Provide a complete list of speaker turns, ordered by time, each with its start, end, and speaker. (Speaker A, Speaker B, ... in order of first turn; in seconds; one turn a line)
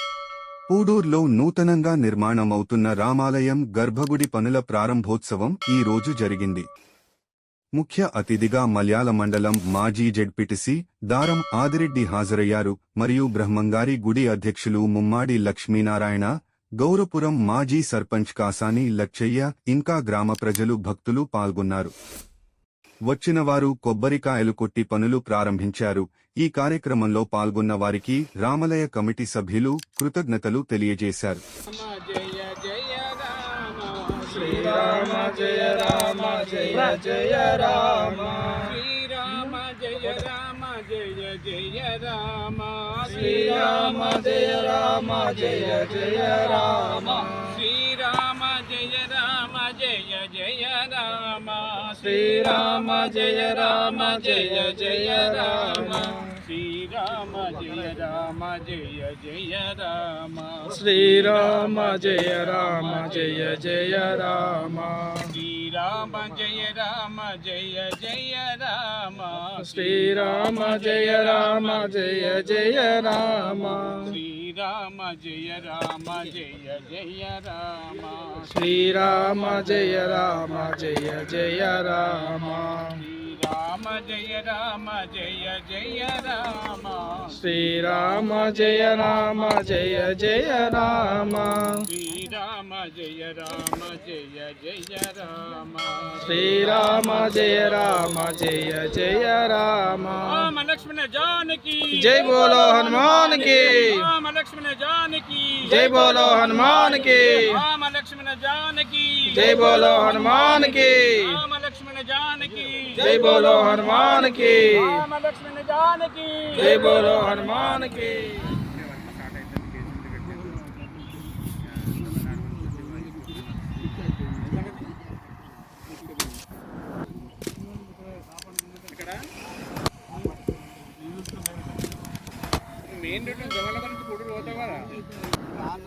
Speaker A: 0.7-6.6
Speaker A: 7.7-21.9
Speaker A: 23.1-31.4
Speaker B: 31.6-36.9
Speaker C: 34.3-38.7
Speaker B: 38.6-43.9
Speaker C: 43.1-47.5
Speaker B: 47.0-63.6
Speaker C: 52.0-56.3
Speaker C: 60.7-65.3
Speaker B: 65.3-69.8
Speaker C: 69.5-74.1
Speaker B: 70.6-72.4
Speaker B: 74.0-78.5
Speaker C: 78.5-83.0
Speaker B: 83.0-87.3
Speaker C: 87.3-91.8
Speaker B: 91.8-97.2
Speaker C: 96.2-100.5
Speaker B: 100.2-120.8
Speaker C: 101.9-104.1
Speaker C: 105.7-107.6
Speaker C: 109.3-111.4
Speaker C: 112.9-115.0
Speaker C: 116.6-118.4
Speaker B: 121.6-123.8
Speaker B: 124.3-124.9
Speaker B: 128.6-129.3
Speaker B: 132.8-135.1